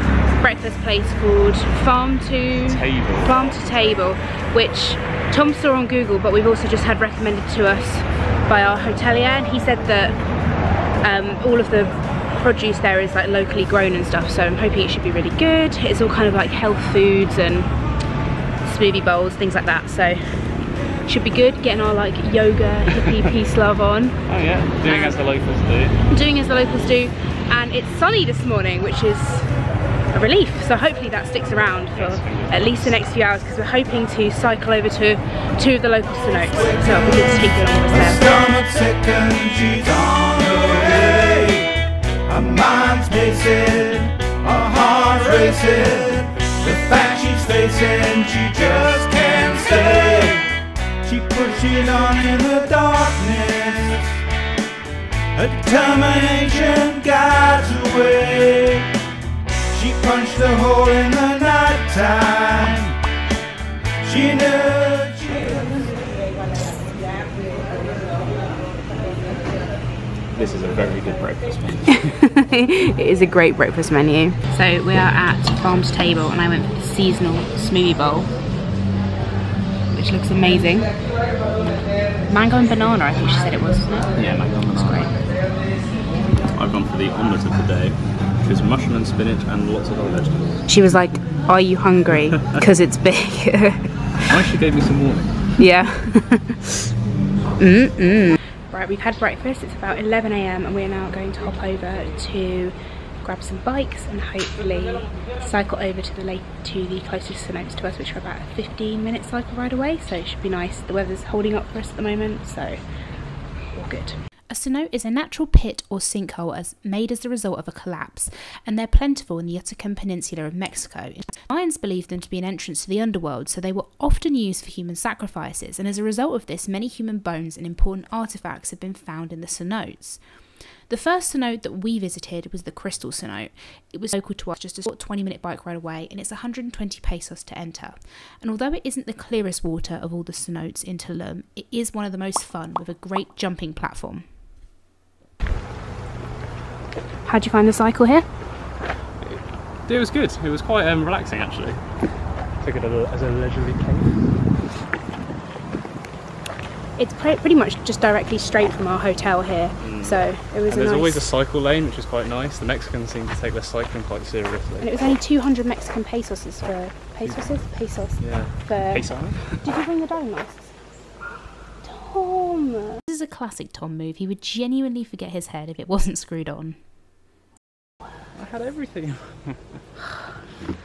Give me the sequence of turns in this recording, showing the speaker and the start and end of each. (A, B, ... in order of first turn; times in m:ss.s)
0:00.4-0:10.2 A
0:02.6-0:03.4 B
0:11.0-0:17.7 A
0:18.6-0:20.5 A
0:21.0-0:24.2 A
0:24.2-0:26.0 B
0:24.9-0:25.2 A
0:26.1-0:29.5 A
0:30.1-0:38.3 A
0:31.9-0:32.9 B
0:36.6-0:37.3 C
0:37.9-0:41.7 C
0:42.3-0:50.5 C
0:51.0-0:54.2 C
0:55.4-0:58.9 C
0:59.7-1:02.9 C
1:04.0-1:05.9 C
1:10.3-1:12.2 B
1:11.9-1:18.3 A
1:19.9-1:20.9 A
1:22.2-1:24.2 A
1:24.1-1:25.2 B
1:24.7-1:25.2 A
1:26.5-1:30.6 B
1:30.7-1:34.3 A
1:34.3-1:35.4 B
1:35.6-1:36.6 A
1:37.6-1:52.8 A
1:53.7-1:54.2 A
1:54.5-2:24.3 D
2:27.2-2:28.3 A
2:29.2-2:31.8 B
2:32.6-2:34.3 B
2:37.0-2:41.3 A
2:39.8-2:44.9 B
2:44.8-2:50.7 A
2:47.2-2:49.7 B
2:51.8-2:53.0 A
2:53.1-2:56.8 D
2:58.3-2:59.8 B